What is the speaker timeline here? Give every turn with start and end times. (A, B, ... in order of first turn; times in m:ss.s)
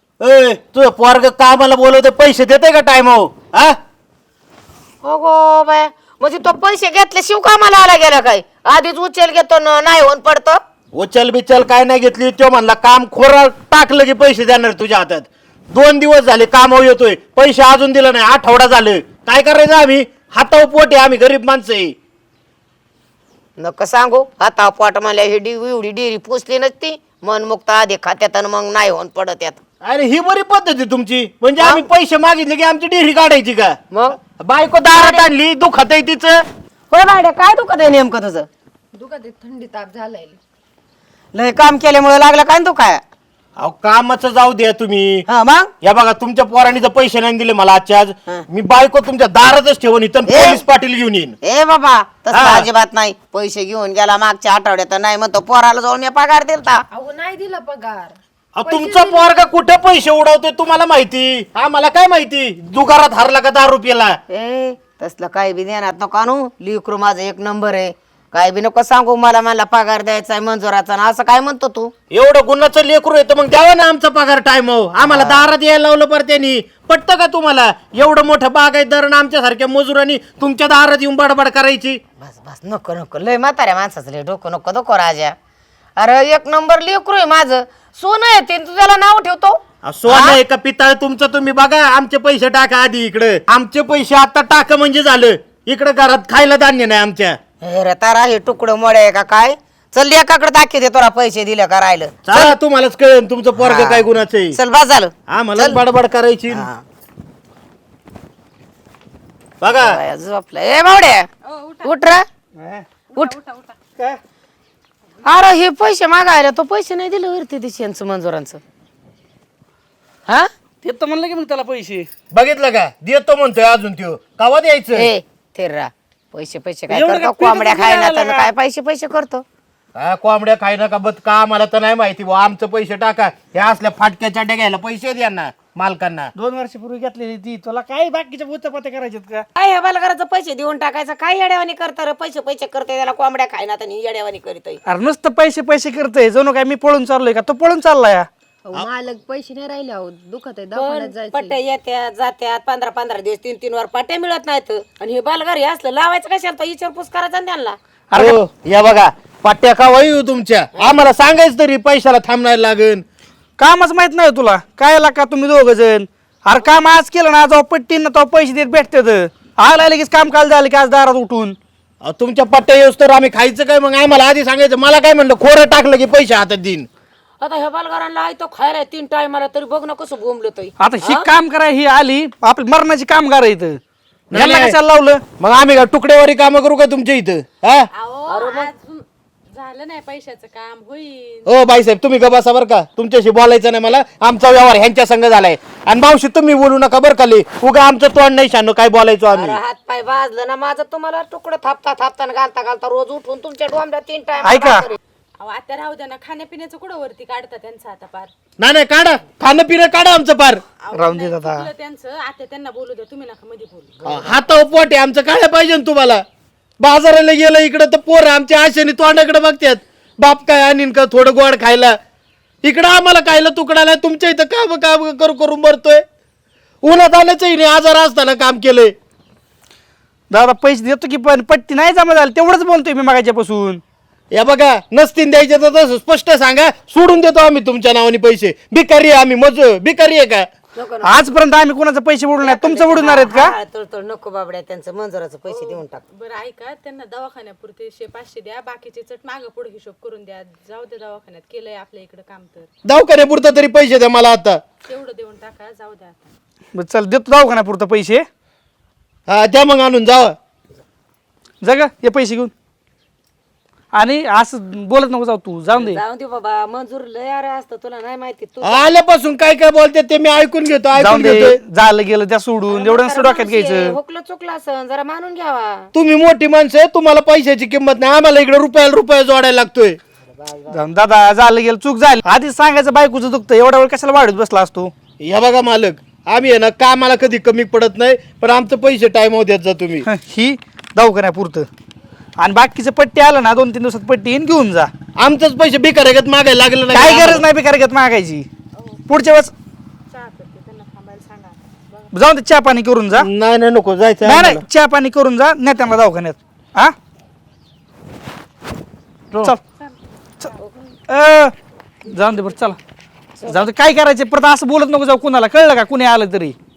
0:00.2-0:03.8 A
0:05.0-0:10.6 B
0:10.9-0:22.0 A
0:23.6-0:29.6 B
0:29.8-0:33.8 A
0:31.6-0:31.9 B
0:33.9-0:34.2 B
0:34.4-0:36.4 A
0:34.9-0:35.3 B
0:36.9-0:38.5 B
0:38.9-0:40.4 C
0:41.3-0:43.0 B
0:43.6-0:45.2 A
0:45.3-0:45.7 B
0:45.8-0:51.4 A
0:50.3-0:50.6 B
0:51.4-0:56.8 B
0:52.3-0:52.7 A
0:56.9-0:59.3 C
0:58.6-1:04.2 A
1:04.3-1:11.9 B
1:12.1-1:22.0 A
1:15.0-1:15.5 B
1:22.2-1:25.4 B
1:26.0-1:30.4 B
1:29.8-1:37.4 A
1:37.6-1:42.6 B
1:42.3-1:44.6 A
1:43.6-1:45.8 B
1:45.3-1:46.7 A
1:46.5-1:46.8 B
1:49.6-1:50.0 A
1:49.7-1:51.3 B
1:51.4-1:52.0 D
1:51.8-1:52.3 B
1:52.6-1:52.8 E
1:53.1-1:53.8 D
1:55.2-1:58.6 B
2:00.8-2:02.1 E
2:02.3-2:05.1 A
2:05.0-2:09.4 B
2:06.9-2:08.5 E
2:10.0-2:16.3 A
2:16.4-2:19.4 E
2:19.6-2:24.8 B
2:24.9-2:28.3 E
2:28.6-2:31.6 C
2:30.7-2:37.8 B
2:38.1-2:43.0 A
2:43.6-2:51.6 E
2:52.0-2:56.9 A
2:57.4-3:01.3 B
3:00.8-3:03.8 E
3:04.3-3:04.8 A
3:04.3-3:05.2 E
3:05.4-3:07.9 A
3:07.9-3:11.5 D
3:08.3-3:08.7 B
3:11.5-3:19.6 A
3:19.3-3:25.0 B
3:24.4-3:24.8 E
3:25.4-3:28.3 D
3:28.6-3:30.6 A
3:30.8-3:34.0 D
3:30.9-3:31.7 E
3:34.0-3:36.2 A
3:36.8-3:42.0 A
3:42.6-3:46.0 A
3:46.8-3:48.9 A
3:50.3-3:53.8 E
3:54.3-4:00.5 A
4:00.8-4:01.2 B
4:01.0-4:03.6 E
4:02.4-4:06.0 B
4:05.6-4:12.7 D
4:12.8-4:14.6 A
4:14.8-4:16.4 D
4:16.8-4:18.3 E
4:19.3-4:20.4 A
4:21.6-4:22.5 E
4:23.9-4:26.0 E
4:25.7-4:28.9 B
4:28.6-4:31.6 A
4:31.0-4:34.0 E
4:32.7-4:35.9 B
4:35.9-4:40.0 A
4:40.4-4:40.8 B
4:40.7-4:44.9 E
4:45.2-4:50.0 A
4:50.0-4:51.7 E
4:52.4-4:54.9 E
4:55.2-4:57.5 A
4:56.9-4:58.5 E
4:58.8-4:59.1 D
4:59.1-4:59.5 E
5:00.1-5:02.1 D
5:02.1-5:03.3 E
5:03.2-5:04.6 A
5:04.2-5:07.0 E
5:10.6-5:10.9 B
5:11.1-5:11.6 E
5:12.1-5:12.8 E
5:13.4-5:13.7 B
5:13.4-5:16.6 E